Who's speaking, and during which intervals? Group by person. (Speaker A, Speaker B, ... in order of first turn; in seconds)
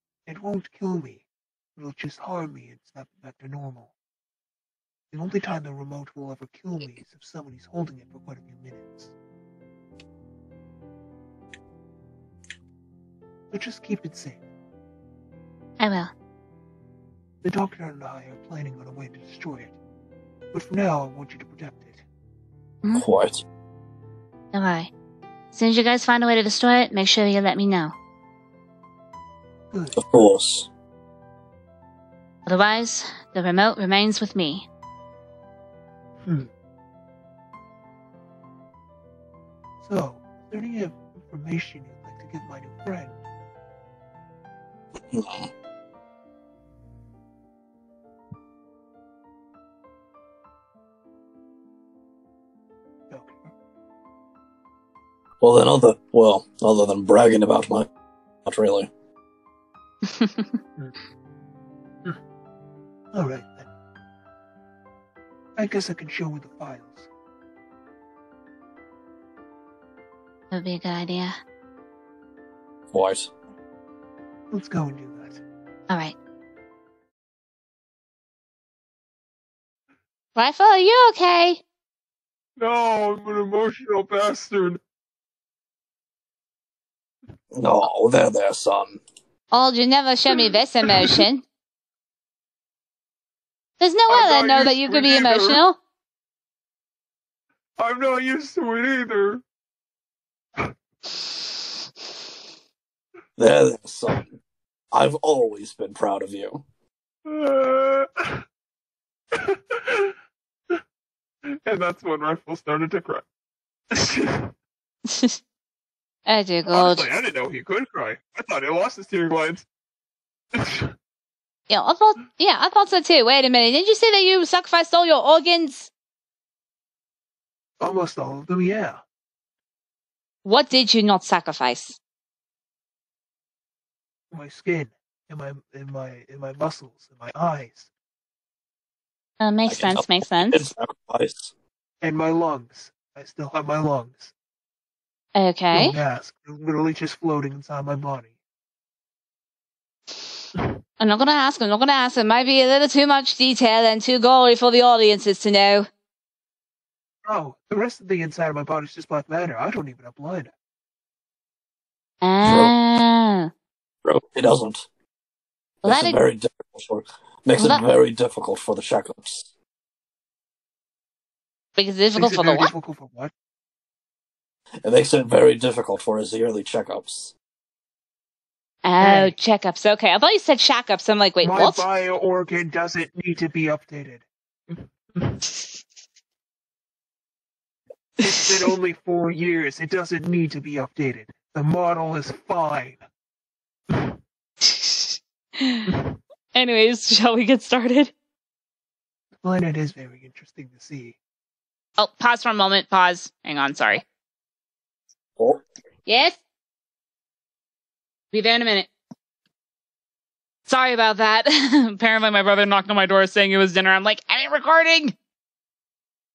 Speaker A: 0.3-4.0, 5.1-9.2, 13.5-14.5, 17.4-19.8, 20.5-22.1, 29.7-30.0, 36.2-36.5, 39.8-43.3, 53.1-53.5, 63.1-63.7, 65.6-67.1, 74.5-75.4, 82.6-84.8, 94.1-95.6, 97.8-99.4, 107.3-108.0, 111.7-113.2, 114.0-114.5, 116.7-119.6, 120.6-120.9, 127.8-129.0, 134.3-137.9, 142.0-144.3, 145.7-148.4, 157.2-160.5, 172.2-173.3, 179.0-179.4, 181.4-185.4, 188.2-193.1, 193.9-194.2, 195.9-196.2, 199.4-201.2
Speaker B: 15.8-16.1, 24.5-24.9, 25.5-27.9, 32.5-34.7, 60.0-60.6, 70.5-71.3, 75.9-76.2, 80.4-81.6, 89.5-91.5, 93.8-95.8, 115.1-115.3, 116.3-117.1, 121.7-125.9, 130.4-132.0, 139.4-140.6, 145.3-146.0, 151.0-155.9, 162.2-163.5, 165.8-166.2, 167.6-167.8, 171.8-172.7, 178.8-181.8, 188.3-188.7, 194.6-195.9, 196.5-198.1, 202.0-204.0, 206.1-206.4, 208.3-208.9, 210.7-215.1
Speaker C: 22.9-23.4, 30.0-30.7, 45.0-45.5, 55.4-57.9, 58.5-58.9, 72.9-73.3, 87.5-89.0, 103.4-104.4, 104.9-106.6, 139.7-141.5, 162.4-162.7, 164.0-164.9, 165.8-169.5, 174.8-177.3, 205.4-205.6